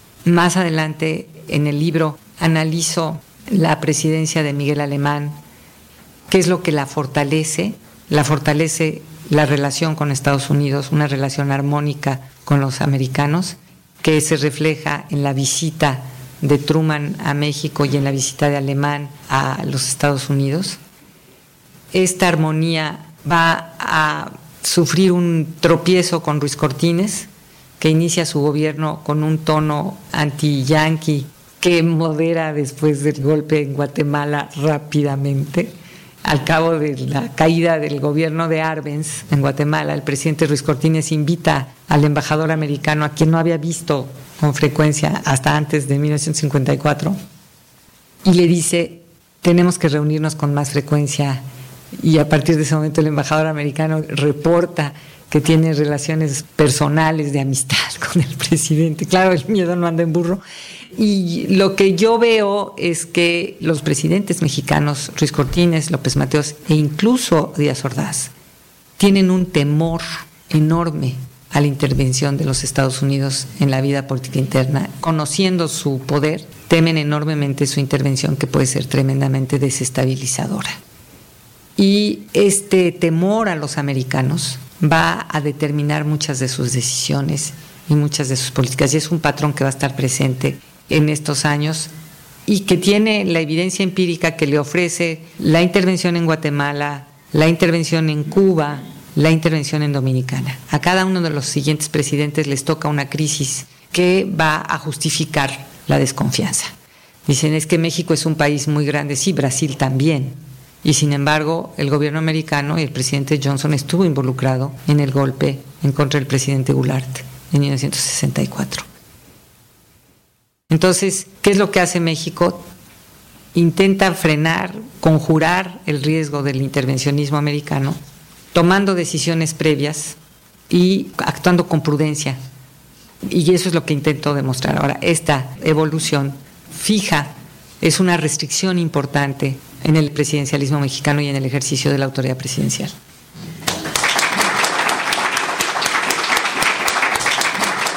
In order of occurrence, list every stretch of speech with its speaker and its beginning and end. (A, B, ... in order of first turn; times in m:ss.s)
0:00.2-0:05.4 A
0:06.3-0:20.8 A
0:21.9-0:35.7 A
0:36.2-0:47.2 A
0:48.2-0:51.4 A
0:52.0-1:00.4 A
1:01.0-1:08.3 A
1:09.0-1:20.8 A
1:21.8-1:31.9 A
1:32.5-1:46.7 A
1:47.2-1:58.8 A
2:00.7-2:02.6 A
2:03.5-2:08.0 A
2:08.5-2:10.2 A
2:10.7-2:12.4 A
2:13.2-2:22.9 A